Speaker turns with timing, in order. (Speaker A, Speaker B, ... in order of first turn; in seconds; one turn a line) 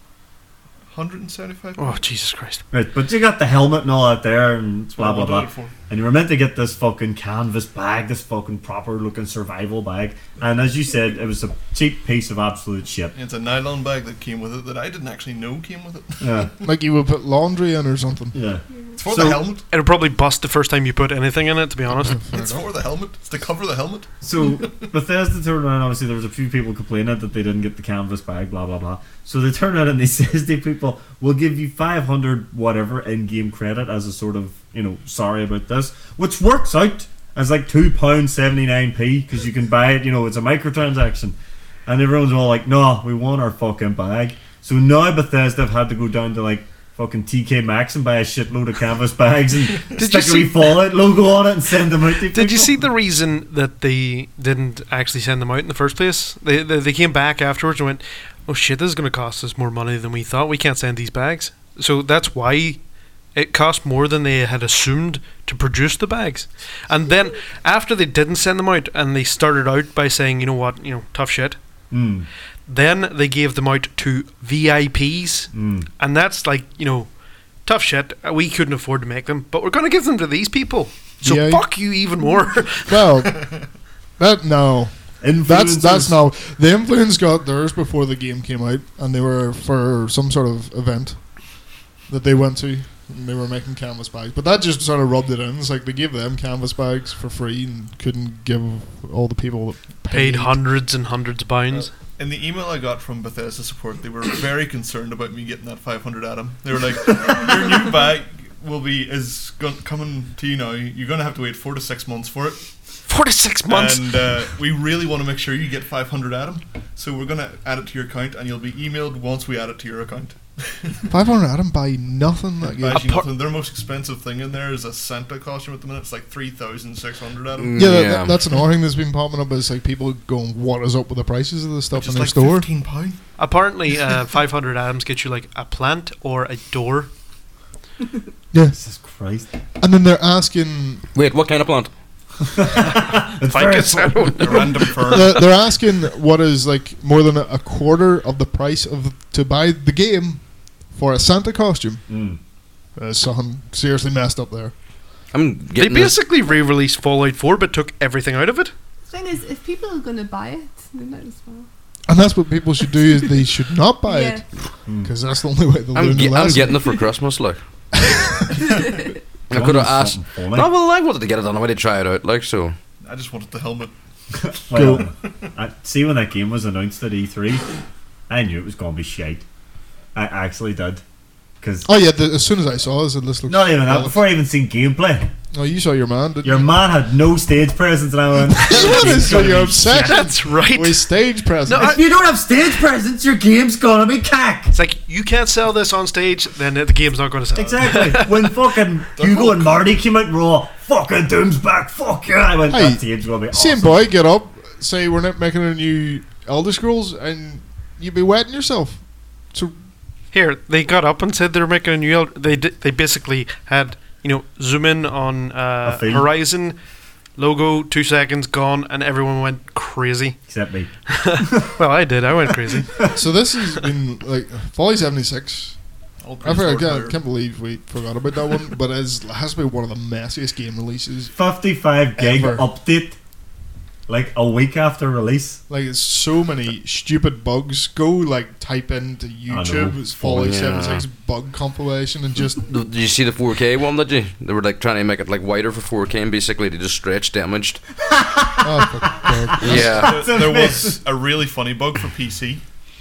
Speaker A: 0.9-2.0
Speaker B: 1.8-2.6
Speaker C: 2.7-13.1
Speaker A: 4.9-5.7
Speaker A: 13.1-16.6
Speaker C: 16.2-16.5
Speaker D: 16.6-18.4
Speaker C: 18.3-19.4
Speaker A: 18.9-19.6
Speaker B: 19.7-22.2
Speaker D: 22.1-22.7
Speaker A: 22.2-24.9
Speaker C: 24.2-52.8
Speaker B: 50.0-50.8
Speaker B: 52.3-62.8
Speaker B: 63.3-71.6
Speaker C: 71.9-72.3
Speaker B: 72.7-83.0
Speaker C: 75.5-75.9
Speaker D: 81.2-81.7
Speaker D: 82.8-83.6
Speaker A: 83.3-83.7
Speaker D: 84.2-100.6
Speaker C: 85.2-86.2
Speaker B: 100.1-101.9
Speaker A: 101.7-112.7
Speaker B: 113.1-114.1
Speaker A: 113.7-121.1
Speaker D: 121.1-123.1
Speaker A: 122.6-127.9
Speaker B: 122.9-123.3
Speaker E: 127.6-128.5
Speaker D: 127.8-132.7
Speaker A: 131.9-133.4
Speaker B: 133.4-137.1
Speaker D: 138.5-138.8
Speaker C: 138.7-139.5
Speaker D: 139.8-141.1
Speaker E: 141.1-141.9
Speaker C: 142.5-144.6
Speaker B: 143.5-144.7
Speaker A: 144.4-145.6
Speaker D: 145.1-152.1
Speaker C: 152.1-152.4
Speaker D: 152.9-154.7
Speaker E: 155.3-156.2
Speaker B: 155.7-158.7
Speaker F: 159.1-161.7
Speaker D: 162.1-167.0
Speaker F: 164.0-164.4
Speaker C: 164.8-165.1
Speaker E: 165.9-167.6
Speaker D: 168.0-168.7
Speaker F: 168.7-169.1
Speaker E: 169.5-172.7
Speaker C: 169.5-170.7
Speaker A: 173.0-173.9
Speaker C: 174.4-177.7
Speaker D: 174.7-175.1
Speaker C: 178.3-179.4
Speaker C: 180.1-181.0
Speaker C: 181.6-181.9
Speaker D: 181.8-184.2
Speaker C: 183.5-185.3
Speaker D: 185.5-186.7
Speaker C: 186.4-190.2
Speaker D: 188.6-192.0
Speaker B: 188.6-189.3
Speaker B: 189.9-192.0
Speaker C: 191.7-194.7
Speaker B: 194.7-198.6
Speaker C: 197.5-204.1
Speaker A: 199.2-199.8
Speaker D: 202.7-209.8
Speaker B: 210.3-216.8
Speaker C: 215.8-216.3
Speaker B: 217.3-220.4
Speaker C: 220.5-221.5
Speaker B: 221.1-223.1
Speaker D: 223.1-225.8
Speaker A: 226.2-227.2
Speaker D: 226.4-231.4
Speaker C: 231.3-233.2
Speaker D: 232.2-232.7
Speaker C: 234.1-235.6
Speaker D: 235.7-242.7
Speaker C: 239.5-240.6
Speaker E: 240.3-241.0
Speaker E: 242.5-247.8
Speaker C: 248.0-251.0
Speaker D: 248.6-250.0
Speaker E: 249.6-250.2
Speaker A: 249.9-252.6